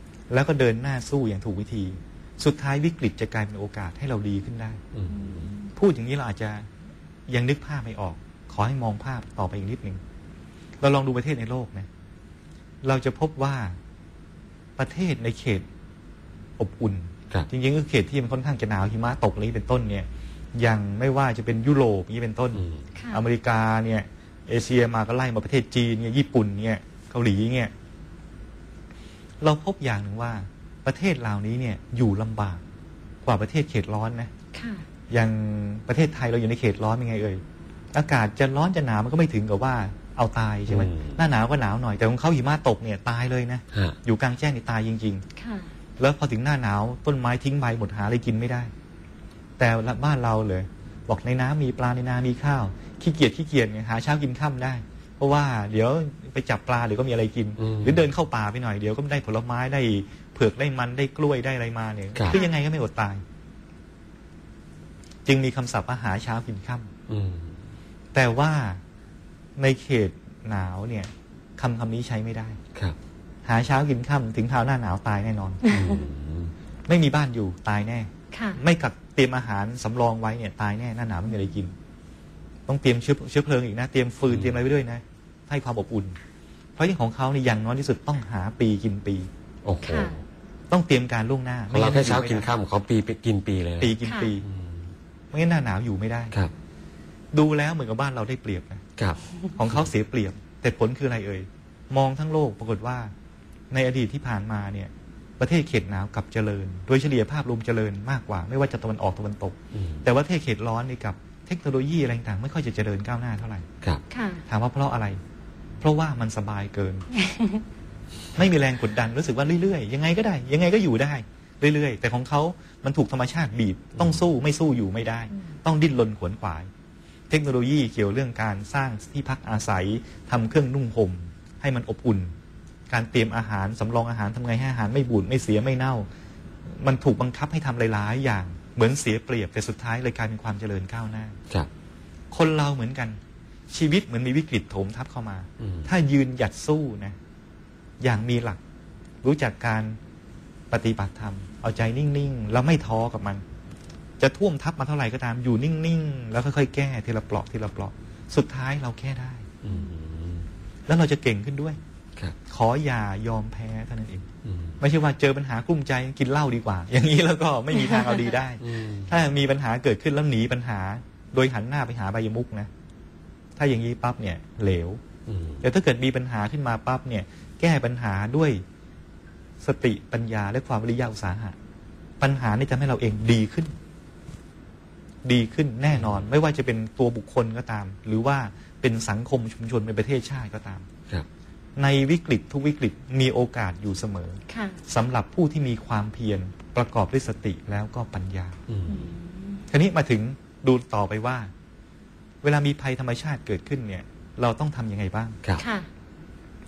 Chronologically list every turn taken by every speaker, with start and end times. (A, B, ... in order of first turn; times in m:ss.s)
0:00.3-0:04.8 A
0:04.9-0:05.5 B
0:05.1-0:05.7 C
0:05.7-0:06.7 A
0:07.3-0:10.0 A
0:10.8-0:11.9 A
0:12.8-0:13.8 A
0:14.8-0:15.6 A
0:16.6-0:27.7 A
0:22.6-0:22.8 B
0:22.9-0:23.2 C
0:29.4-0:32.6 A
0:33.2-0:34.3 A
0:34.5-0:34.8 C
0:35.1-0:45.2 A
0:40.7-0:41.2 B
0:45.4-0:45.7 C
0:46.0-0:48.7 A
0:49.6-1:03.2 A
0:57.6-0:58.0 B
1:02.3-1:02.5 C
1:05.2-1:06.9 A
1:07.1-1:07.6 B
1:08.1-1:08.8 A
1:09.6-1:12.6 A
1:13.4-1:15.6 A
1:15.6-1:16.0 C
1:15.7-1:16.5 B
1:16.9-1:21.7 A
1:18.3-1:18.6 C
1:22.7-1:26.2 A
1:24.3-1:24.6 B
1:26.8-1:29.3 A
1:29.6-1:30.2 B
1:29.8-1:30.1 C
1:30.7-1:32.5 A
1:31.7-1:34.9 B
1:33.8-1:34.4 A
1:34.0-1:34.3 C
1:35.3-1:36.4 A
1:37.3-1:38.8 A
1:39.5-1:43.1 A
1:43.7-1:53.7 A
1:49.7-1:50.1 B
1:54.1-1:54.4 C
1:54.5-1:55.2 A
1:55.8-1:57.1 A
1:57.1-1:57.6 C
1:58.3-2:06.7 A
2:07.3-2:12.3 A
2:12.9-2:16.1 A
2:16.8-2:21.4 A
2:22.3-2:23.2 A
2:23.7-2:27.2 A
2:25.6-2:25.9 B
2:28.0-2:28.6 A
2:29.2-2:30.0 A
2:30.7-2:33.4 A
2:34.2-2:39.5 A
2:39.6-2:40.5 B
2:40.9-2:41.8 A
2:42.4-2:44.2 A
2:44.4-2:44.8 B
2:44.8-2:52.7 A
2:48.6-2:49.1 B
2:53.6-2:55.0 A
2:55.3-2:55.6 B
2:55.6-2:58.6 A
2:59.6-3:01.6 A
3:02.2-3:03.7 A
3:05.2-3:10.9 A
3:05.9-3:06.3 B
3:11.8-3:18.6 A
3:14.5-3:14.8 C
3:18.7-3:19.1 B
3:18.9-3:19.6 C
3:19.7-3:21.5 A
3:22.4-3:25.4 A
3:25.6-3:25.9 C